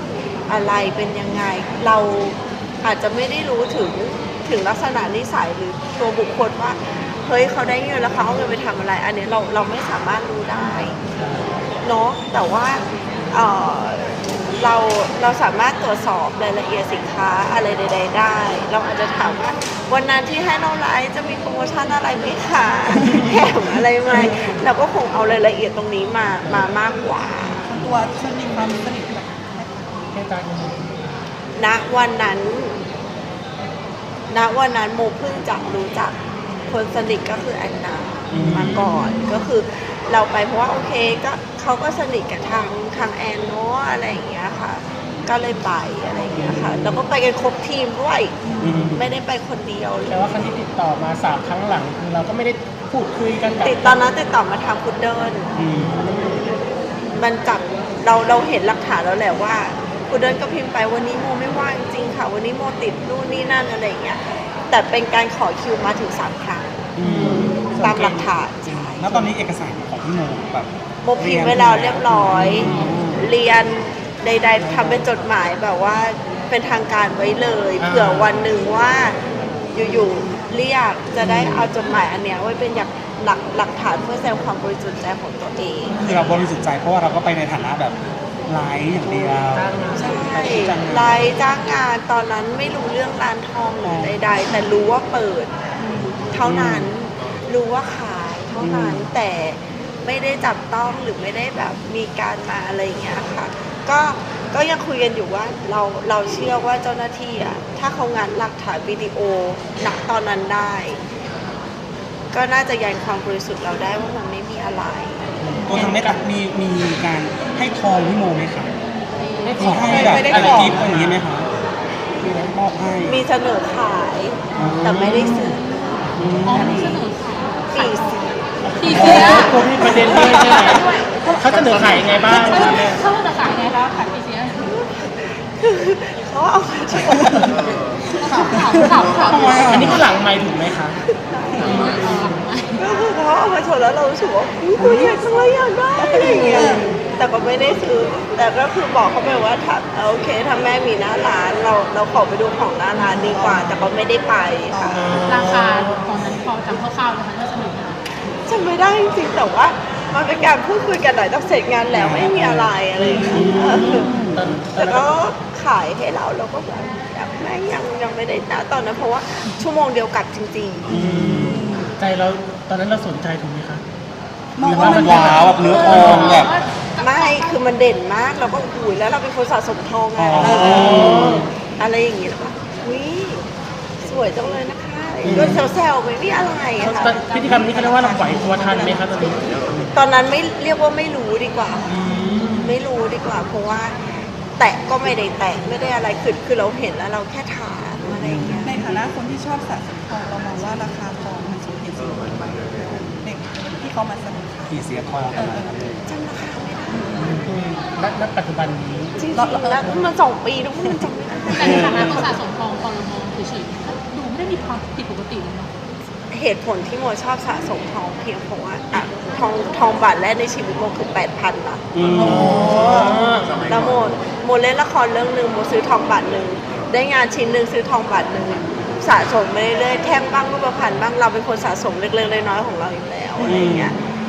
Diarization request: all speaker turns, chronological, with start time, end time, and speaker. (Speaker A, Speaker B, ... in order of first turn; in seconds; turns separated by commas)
Speaker A: 0.5-11.0, Speaker B: 11.0-11.6, Speaker A: 11.8-27.7, Speaker B: 23.1-23.3, Speaker B: 26.4-26.7, Speaker C: 27.6-30.1, Speaker B: 30.1-31.1, Speaker A: 31.6-32.8, Speaker A: 34.3-36.1, Speaker A: 36.7-48.3, Speaker D: 38.3-38.8, Speaker D: 46.4-46.8, Speaker C: 48.5-48.7, Speaker D: 48.6-49.1, Speaker A: 48.9-50.3, Speaker B: 50.1-54.1, Speaker A: 53.6-55.5, Speaker D: 55.5-56.0, Speaker B: 55.6-56.5, Speaker A: 57.1-66.8, Speaker D: 66.9-67.6, Speaker B: 67.0-69.3, Speaker A: 67.8-69.1, Speaker D: 69.0-73.3, Speaker A: 71.0-79.2, Speaker E: 72.6-72.9, Speaker D: 74.6-75.1, Speaker B: 77.8-78.5, Speaker A: 79.7-86.0, Speaker D: 81.2-81.7, Speaker D: 85.8-91.3, Speaker B: 89.4-90.2, Speaker A: 89.9-95.5, Speaker D: 93.8-94.2, Speaker A: 96.3-111.0, Speaker D: 96.4-96.9, Speaker D: 98.6-99.1, Speaker A: 112.3-115.3, Speaker B: 115.3-116.2, Speaker D: 115.6-118.7, Speaker E: 118.8-120.2, Speaker B: 119.4-121.2, Speaker D: 119.6-121.5, Speaker C: 119.6-120.8, Speaker D: 122.2-123.2, Speaker B: 122.2-122.5, Speaker A: 123.0-125.9, Speaker D: 124.5-125.6, Speaker B: 124.6-125.4, Speaker B: 126.1-126.7, Speaker D: 126.2-127.0, Speaker E: 126.4-134.7, Speaker A: 127.7-128.3, Speaker B: 128.7-133.0, Speaker D: 128.9-129.5, Speaker A: 134.6-137.4, Speaker E: 138.2-140.0, Speaker D: 139.3-140.1, Speaker B: 139.4-141.0, Speaker A: 141.1-141.8, Speaker B: 141.6-142.4, Speaker E: 141.6-142.8, Speaker A: 142.8-155.2, Speaker C: 144.8-145.4, Speaker B: 146.2-146.8, Speaker C: 146.4-146.9, Speaker C: 153.1-153.9, Speaker C: 154.7-155.3, Speaker B: 154.9-156.1, Speaker E: 155.2-158.0, Speaker A: 158.4-164.1, Speaker D: 161.9-164.6, Speaker B: 163.0-165.2, Speaker A: 164.8-170.9, Speaker D: 170.9-171.6, Speaker B: 170.9-173.8, Speaker C: 171.4-171.9, Speaker C: 174.6-175.8, Speaker B: 174.6-176.5, Speaker D: 174.6-176.5, Speaker E: 175.1-177.6, Speaker A: 177.0-183.4, Speaker D: 180.2-181.5, Speaker B: 180.3-181.5, Speaker A: 184.0-187.2, Speaker D: 185.2-185.6, Speaker C: 186.8-189.6, Speaker B: 186.8-189.4, Speaker E: 186.8-187.4, Speaker A: 189.9-192.1, Speaker B: 191.9-192.8, Speaker A: 192.6-194.0, Speaker A: 194.6-198.7, Speaker D: 198.2-199.0, Speaker C: 198.6-205.8, Speaker D: 204.7-206.1, Speaker A: 206.1-207.3, Speaker C: 206.9-207.4, Speaker B: 207.4-210.0, Speaker A: 209.2-212.3, Speaker C: 209.3-209.8, Speaker E: 211.5-215.7, Speaker D: 211.6-212.3, Speaker A: 216.3-223.1, Speaker D: 221.9-223.0, Speaker B: 222.2-223.7, Speaker C: 222.4-223.2, Speaker A: 223.6-233.9, Speaker D: 233.4-233.9